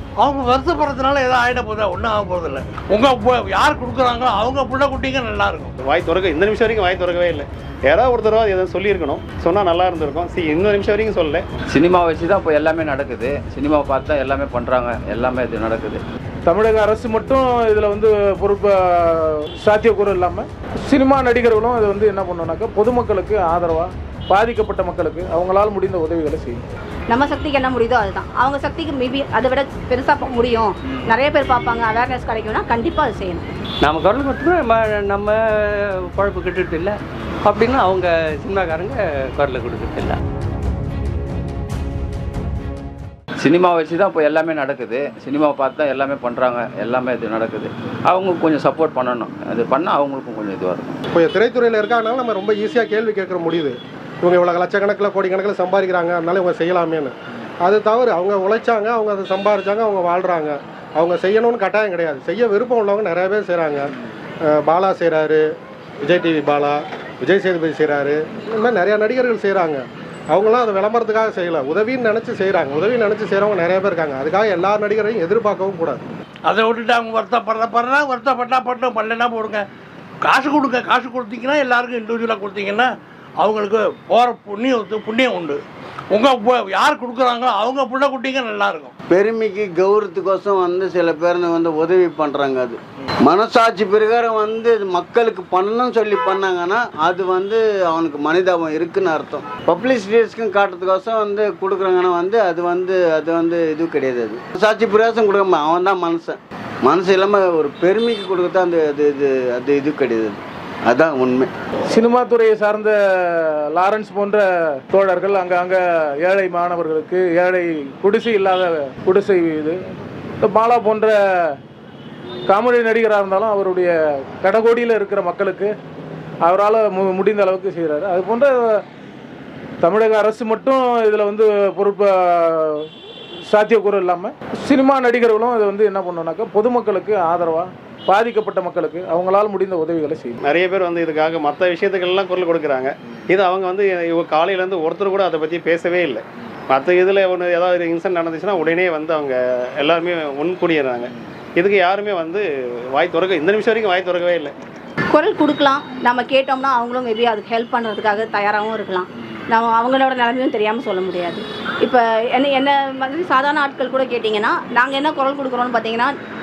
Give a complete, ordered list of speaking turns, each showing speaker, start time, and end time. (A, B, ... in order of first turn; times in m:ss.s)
0:00.2-0:05.7 A
0:05.8-0:11.4 B
0:11.7-0:16.0 C
0:16.5-0:18.7 D
0:19.6-0:23.9 D
0:24.7-0:26.6 D
0:27.1-0:33.4 E
0:33.8-0:35.3 F
0:36.1-0:40.2 F
0:43.4-0:51.0 C
0:51.1-1:03.9 G
1:04.4-1:05.4 G
1:06.0-1:16.0 G
1:16.5-1:19.6 A
1:20.2-1:22.9 A
1:23.4-1:28.9 A
1:29.1-1:51.5 H
1:52.0-1:52.9 D
1:54.0-1:54.4 E
1:54.9-1:55.7 D
1:56.3-1:59.7 D
1:57.3-1:59.6 E
2:00.6-2:01.1 E
2:00.7-2:01.0 D
2:02.5-2:03.9 D
2:03.3-2:03.8 E
2:04.4-2:05.6 D
2:04.5-2:05.6 E
2:06.5-2:08.8 D
2:06.6-2:08.4 E
2:09.8-2:10.3 E
2:10.1-2:12.6 D
2:10.9-2:12.1 E
2:13.5-2:14.3 E
2:13.8-2:20.3 D
2:18.9-2:19.4 E
2:20.4-2:34.5 B
2:35.1-2:46.1 E